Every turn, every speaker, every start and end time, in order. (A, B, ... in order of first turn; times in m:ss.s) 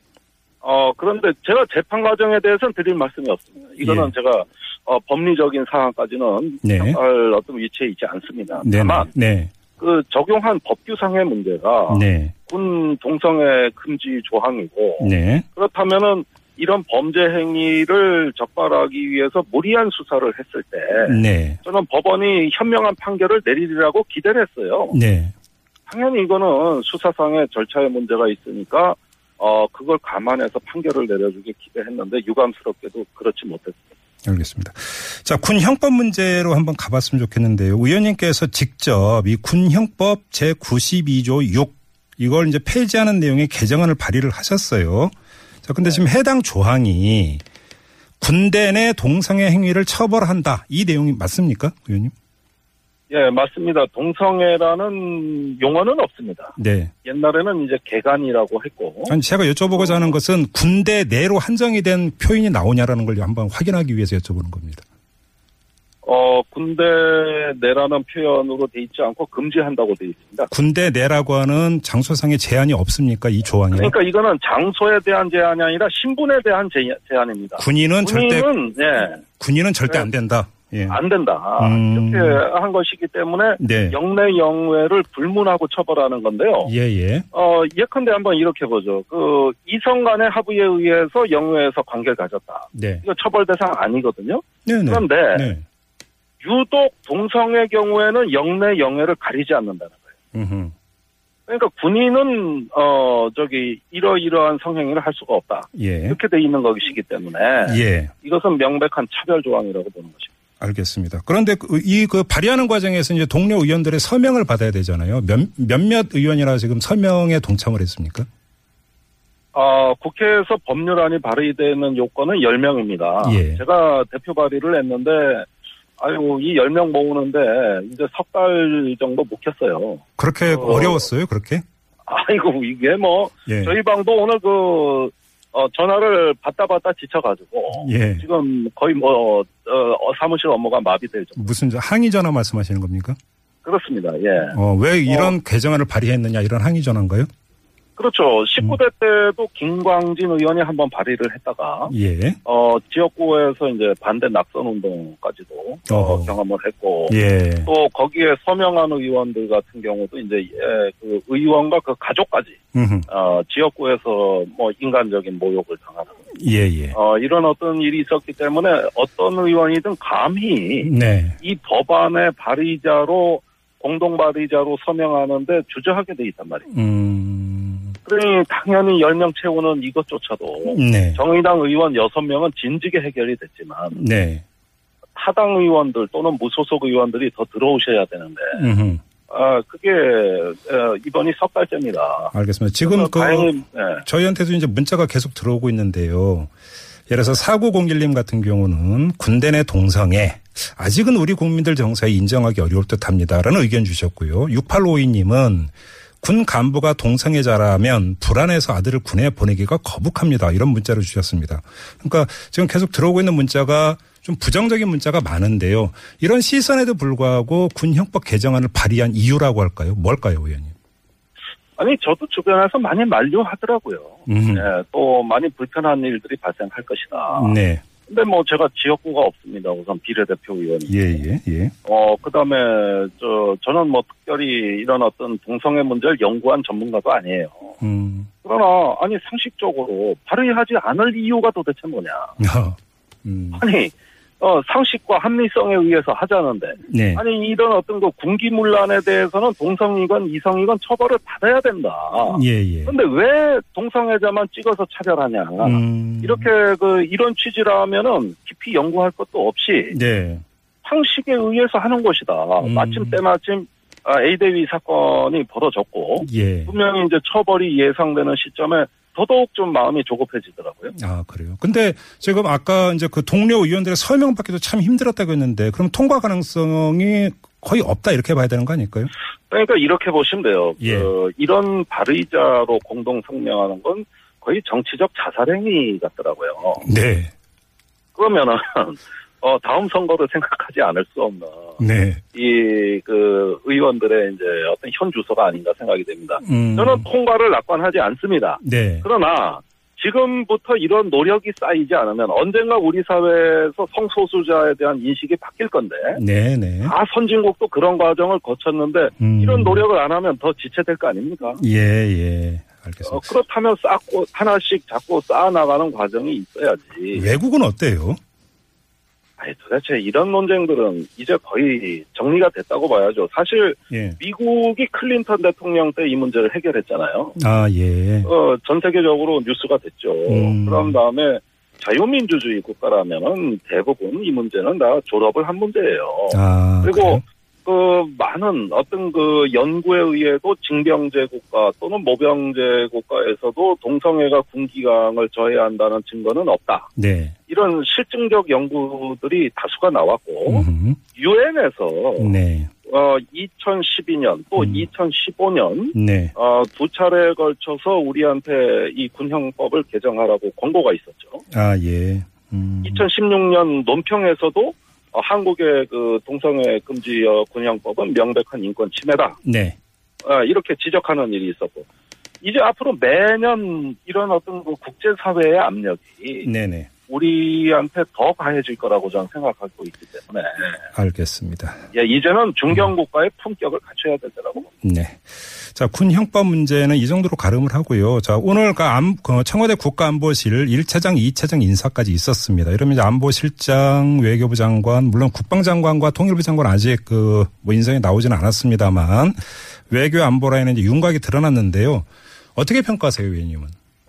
0:00.6-0:09.1 A
0:03.8-0:04.1 B
0:06.6-0:07.0 B
0:08.6-0:09.5 B
0:09.8-0:25.0 A
0:11.9-0:12.3 B
0:15.0-0:15.4 B
0:21.0-0:21.6 B
0:24.9-0:25.3 B
0:25.9-0:33.8 A
0:34.2-0:47.4 B
0:48.2-0:52.1 B
0:53.1-0:56.5 A
0:56.6-0:56.9 B
0:57.0-0:59.2 A
0:59.1-1:04.8 B
0:59.8-1:00.1 A
1:06.0-1:10.5 A
1:10.5-1:13.9 B
1:13.7-1:19.2 A
1:17.6-1:18.5 B
1:19.3-1:21.0 B
1:20.9-1:26.7 A
1:21.6-1:22.4 B
1:23.6-1:24.0 B
1:26.6-1:27.2 B
1:27.3-1:35.5 A
1:32.7-1:33.0 B
1:34.6-1:35.6 B
1:36.4-1:40.0 A
1:40.3-1:40.7 B
1:41.5-1:50.3 A
1:45.7-1:46.2 B
1:47.6-1:48.1 B
1:50.6-1:58.3 B
1:59.5-2:05.5 A
2:03.2-2:03.6 B
2:06.0-2:11.0 A
2:10.2-2:11.6 B
2:12.1-2:21.5 A
2:13.5-2:13.8 B
2:17.7-2:18.2 B
2:21.4-2:23.2 B
2:23.6-2:24.6 A
2:24.5-2:27.3 B
2:25.1-2:25.3 A
2:28.0-2:31.9 A
2:31.9-2:32.4 B
2:32.4-2:42.6 A
2:35.9-2:36.3 B
2:37.1-2:37.7 B
2:42.7-2:43.1 B
2:43.1-2:46.1 A
2:46.3-2:47.0 B
2:46.9-2:50.9 A
2:50.8-2:51.4 B
2:51.4-2:56.6 A
2:56.7-2:58.0 B
2:58.0-3:04.0 A
3:00.7-3:01.2 B
3:03.9-3:04.4 B
3:05.1-3:08.6 A
3:08.6-3:09.0 B
3:09.3-3:14.0 A
3:12.3-3:13.5 B
3:14.0-3:16.5 B
3:17.1-3:40.7 B
3:41.8-3:51.0 A
3:44.3-3:44.7 B
3:47.3-3:47.8 B
3:50.9-3:51.7 B
3:51.8-3:57.7 A
3:57.8-3:58.3 B
3:58.4-4:02.3 A
4:02.4-4:03.6 B
4:03.5-4:19.9 A
4:06.8-4:07.2 B
4:12.3-4:12.9 B
4:15.6-4:16.5 B
4:19.9-4:20.4 B
4:20.8-4:30.9 A
4:22.6-4:23.2 B
4:26.2-4:26.7 B
4:30.9-4:39.1 B
4:39.5-4:46.8 A
4:40.8-4:41.1 B
4:46.8-4:47.3 B
4:48.1-4:51.8 A
4:51.8-4:52.2 B
4:52.3-5:06.2 A
4:56.4-4:57.0 B
4:58.6-4:59.0 B
5:06.1-5:06.9 B
5:06.8-5:11.6 A
5:09.2-5:09.8 B
5:11.6-5:13.3 B
5:13.0-5:17.3 A
5:17.1-5:18.2 B
5:19.4-5:27.3 A
5:23.9-5:24.2 B
5:27.4-5:28.3 B
5:28.2-5:46.9 A
5:30.3-5:31.0 B
5:36.3-5:37.2 B
5:47.0-5:47.4 B
5:47.5-5:52.3 A
5:50.4-5:51.0 B
5:52.2-5:52.7 B
5:52.8-6:01.4 A
5:54.6-5:54.8 B
5:55.9-5:56.3 B
6:01.5-6:03.0 B
6:02.8-6:09.4 A
6:09.4-6:09.8 B
6:10.2-6:11.8 A
6:12.4-6:16.4 A
6:16.4-6:16.9 B
6:17.0-6:20.7 A
6:20.9-6:21.8 B
6:21.9-6:24.7 A
6:24.8-6:39.4 B
6:39.9-6:43.7 B